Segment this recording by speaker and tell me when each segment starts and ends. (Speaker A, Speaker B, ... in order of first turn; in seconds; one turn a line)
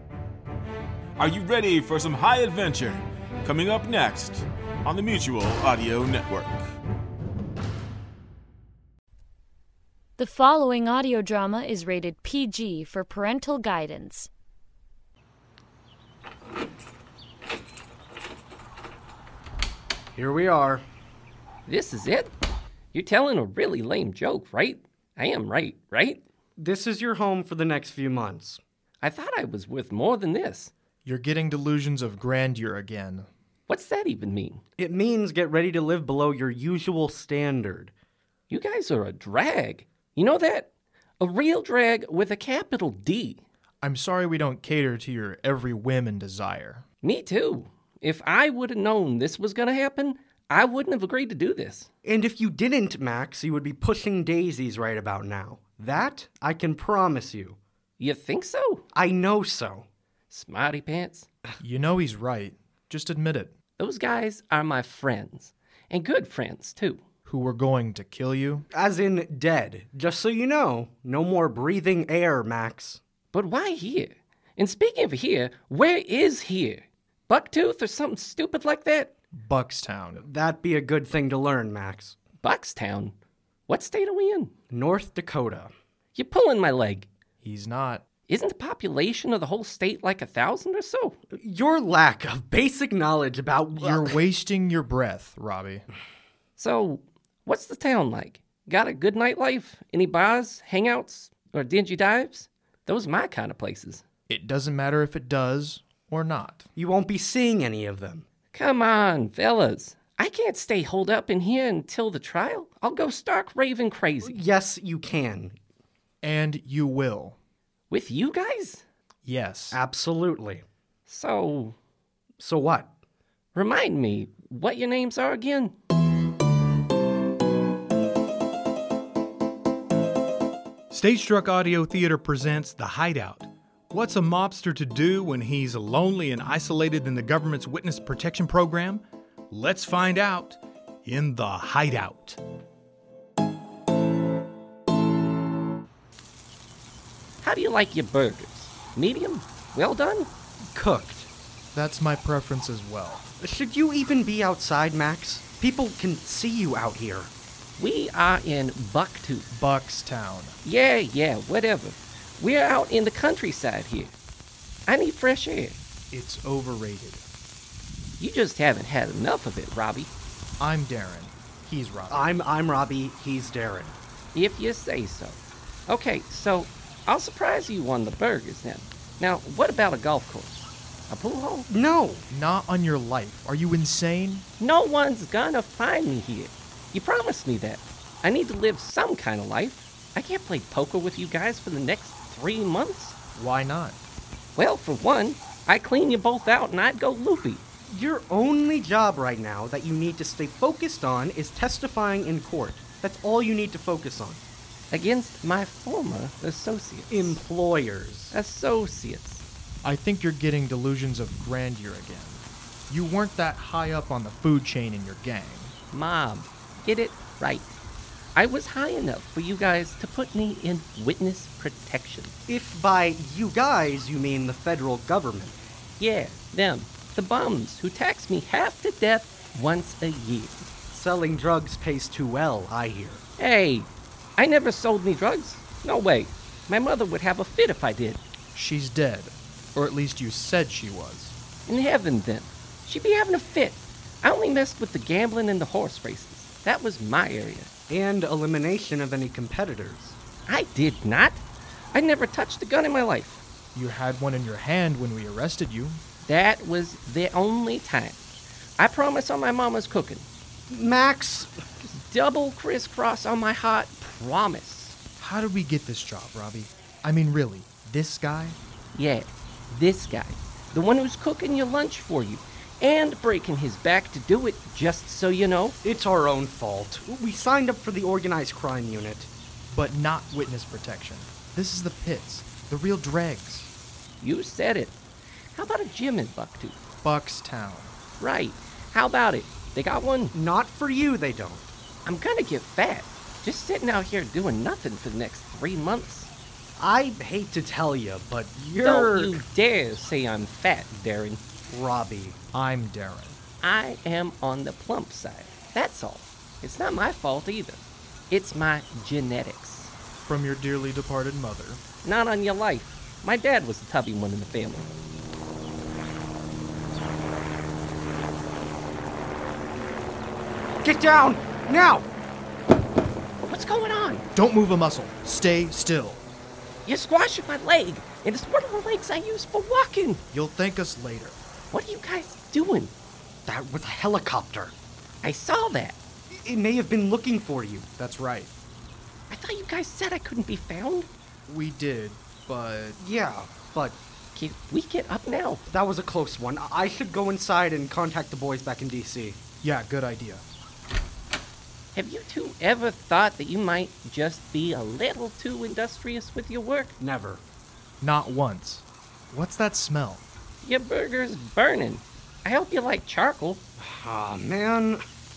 Speaker A: 1.2-6.7
Speaker B: 10.2-14.3
Speaker C: 20.1-20.8
Speaker D: 21.7-22.3
Speaker D: 22.9-26.2
Speaker C: 26.6-28.6
Speaker D: 29.0-30.7
Speaker E: 31.0-33.3
Speaker D: 33.7-34.6
Speaker C: 34.8-37.9
Speaker D: 38.5-40.7
Speaker D: 41.2-43.4
Speaker E: 43.8-46.8
Speaker D: 47.0-51.9
Speaker C: 52.0-57.6
Speaker D: 58.0-58.9
Speaker C: 58.9-59.9
Speaker D: 60.3-61.3
Speaker E: 61.6-63.5
Speaker D: 63.8-67.0
Speaker E: 67.2-68.7
Speaker C: 68.7-73.0
Speaker D: 73.3-79.1
Speaker E: 79.3-80.2
Speaker C: 80.2-82.2
Speaker D: 82.4-83.1
Speaker D: 83.7-84.5
Speaker C: 84.7-85.7
Speaker D: 86.1-87.1
Speaker E: 87.4-88.0
Speaker D: 88.3-91.2
Speaker C: 91.3-94.2
Speaker E: 93.7-95.8
Speaker D: 96.6-104.0
Speaker E: 104.3-106.7
Speaker C: 106.8-108.2
Speaker D: 108.5-114.4
Speaker C: 114.2-115.5
Speaker E: 116.2-117.4
Speaker D: 117.9-118.8
Speaker E: 119.2-119.8
Speaker C: 119.7-120.6
Speaker D: 121.1-121.8
Speaker C: 122.4-122.9
Speaker D: 123.5-125.7
Speaker F: 130.9-142.4
Speaker D: 147.4-150.3
Speaker C: 150.7-151.3
Speaker E: 151.7-153.2
Speaker C: 153.4-157.3
Speaker D: 157.8-159.5
Speaker E: 159.5-160.6
Speaker D: 160.6-164.1
Speaker D: 164.9-165.8
Speaker E: 166.1-167.2
Speaker D: 168.2-170.1
Speaker E: 170.6-172.3
Speaker C: 172.1-173.9
Speaker D: 174.3-181.7
Speaker C: 181.7-182.2
Speaker E: 182.3-184.5
Speaker D: 184.6-193.2
Speaker E: 193.3-194.0
Speaker D: 194.6-197.6
Speaker C: 197.9-204.4
Speaker D: 204.9-207.4
Speaker C: 207.1-208.3
Speaker D: 208.3-209.4
Speaker E: 209.8-215.7
Speaker D: 215.9-217.8
Speaker D: 218.3-222.3
Speaker C: 222.5-225.6
Speaker D: 226.0-230.7
Speaker C: 230.9-233.2
Speaker D: 233.4-238.2
Speaker E: 238.5-241.3
Speaker D: 241.7-247.7
Speaker C: 247.9-250.2
Speaker D: 250.5-251.4
Speaker D: 251.9-253.4
Speaker E: 253.7-256.0
Speaker D: 256.2-258.2
Speaker D: 258.8-260.3
Speaker C: 260.7-261.5
Speaker D: 262.0-264.9
Speaker E: 265.2-268.6
Speaker D: 268.9-275.8
Speaker C: 275.8-279.3
Speaker E: 279.7-283.7
Speaker D: 284.2-284.9
Speaker D: 285.5-286.8
Speaker E: 287.0-287.9
Speaker D: 288.2-290.3
Speaker C: 290.3-291.7
Speaker D: 292.0-296.3
Speaker C: 296.8-299.4
Speaker D: 298.8-301.4
Speaker C: 301.7-302.4
Speaker E: 302.5-303.4
Speaker D: 303.6-309.9
Speaker E: 310.2-311.8
Speaker D: 312.0-314.9
Speaker C: 320.8-322.1
Speaker D: 323.4-324.2
Speaker E: 324.3-326.2
Speaker D: 326.9-330.2
Speaker E: 330.3-331.4
Speaker D: 331.7-332.9
Speaker C: 333.4-334.7
Speaker D: 335.2-336.0
Speaker C: 336.3-337.9
Speaker E: 338.0-338.5
Speaker D: 339.3-341.1
Speaker E: 341.5-343.0
Speaker C: 343.0-344.0
Speaker D: 344.3-345.6
Speaker C: 345.7-349.4
Speaker E: 349.6-350.4
Speaker D: 351.9-356.9
Speaker C: 357.0-357.4
Speaker E: 358.0-360.2
Speaker D: 360.6-363.6
Speaker C: 363.8-365.0